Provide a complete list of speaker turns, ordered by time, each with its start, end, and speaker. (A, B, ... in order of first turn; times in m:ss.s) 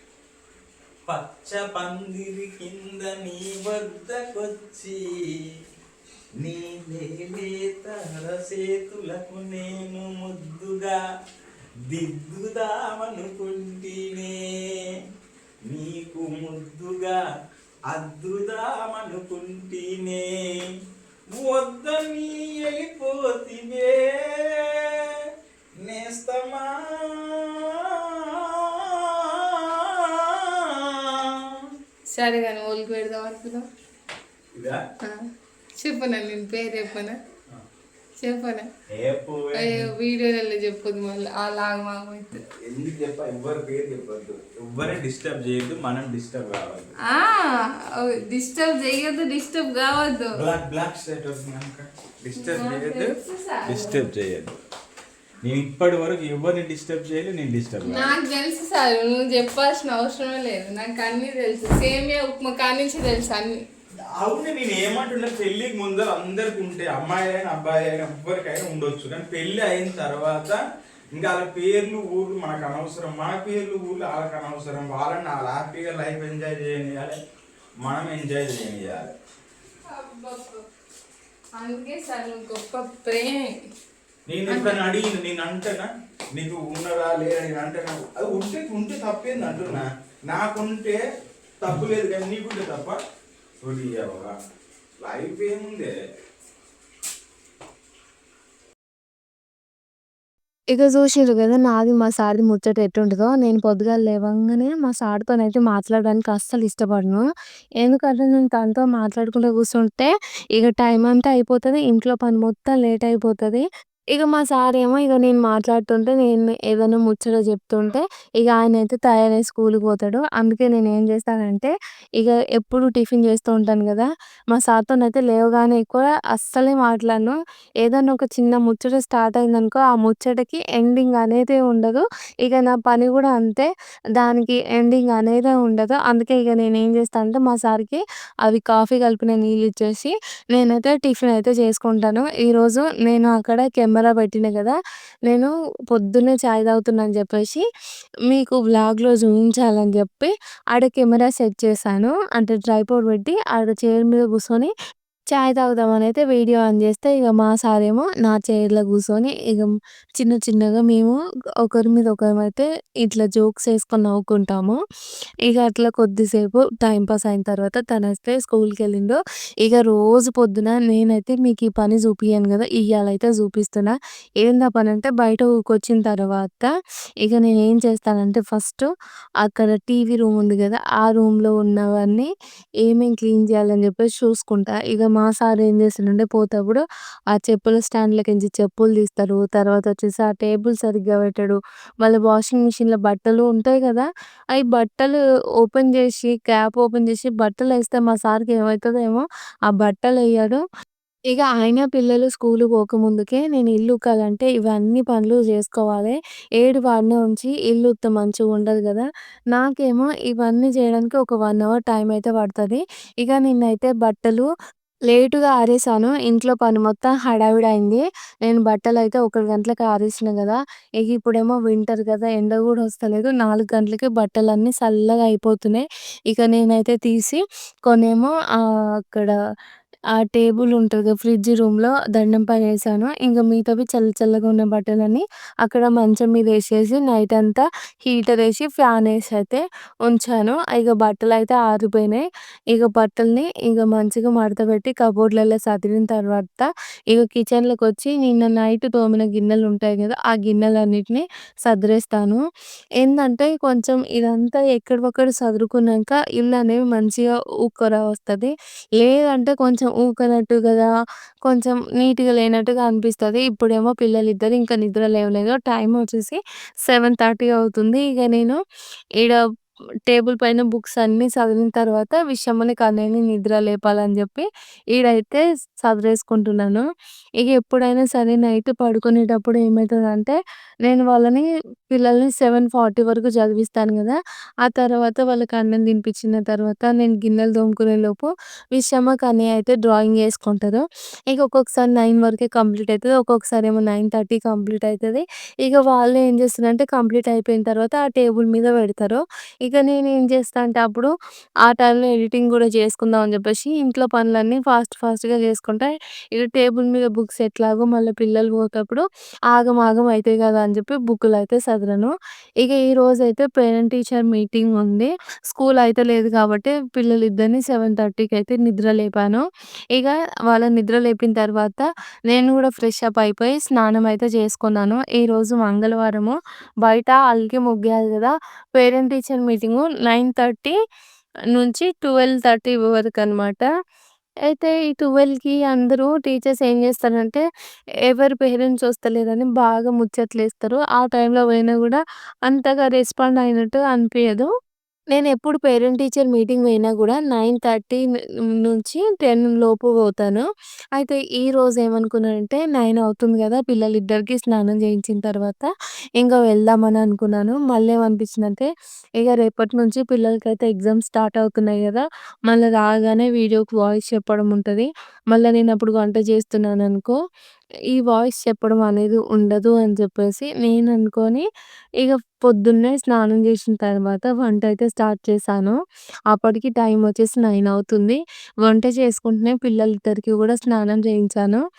0:01.1-0:05.4 A
0:06.4-0:11.0 A
0:11.9-0:15.0 A
0:15.7-0:17.2 A
0:17.9-0:20.7 A
0:21.3-0:25.3 A
0:25.8-0:31.8 A
0:32.1-0:33.6 B
0:34.5-0:34.8 A
0:35.0-0:37.2 B
0:38.2-0:38.7 B
0:38.9-0:39.9 A
0:39.5-0:42.4 B
0:42.6-0:46.9 A
0:47.0-0:50.4 B
0:50.3-0:54.6 A
0:52.4-0:54.0 B
0:55.4-0:58.1 A
0:57.8-1:03.6 B
1:04.1-1:10.6 A
1:11.1-1:17.2 A
1:17.8-1:19.1 A
1:19.9-1:20.6 B
1:21.6-1:23.6 B
1:24.3-1:31.0 A
1:24.5-1:24.8 B
1:31.6-1:33.0 A
1:33.6-1:34.3 A
1:35.0-1:35.9 A
1:40.7-1:47.2 C
1:47.8-2:27.6 C
2:28.3-2:34.7 C
2:35.3-2:44.8 C
2:45.5-2:56.7 C
2:57.2-2:58.9 C
2:59.4-3:02.3 C
3:02.8-3:20.6 C
3:21.3-3:34.5 C
3:35.1-3:49.3 C
3:50.1-4:12.4 C
4:13.0-4:20.9 C
4:21.4-4:28.6 C
4:30.1-4:36.8 C
4:37.4-5:01.1 C
5:01.6-5:19.4 C
5:19.9-5:30.7 C
5:31.5-5:33.7 C
5:34.5-5:37.4 C
5:38.1-5:44.5 C
5:45.1-5:48.0 C
5:48.6-5:55.7 C
5:56.2-5:58.7 C
5:59.2-6:07.2 C
6:07.9-6:11.4 C
6:12.0-6:15.8 C
6:16.3-6:21.6 C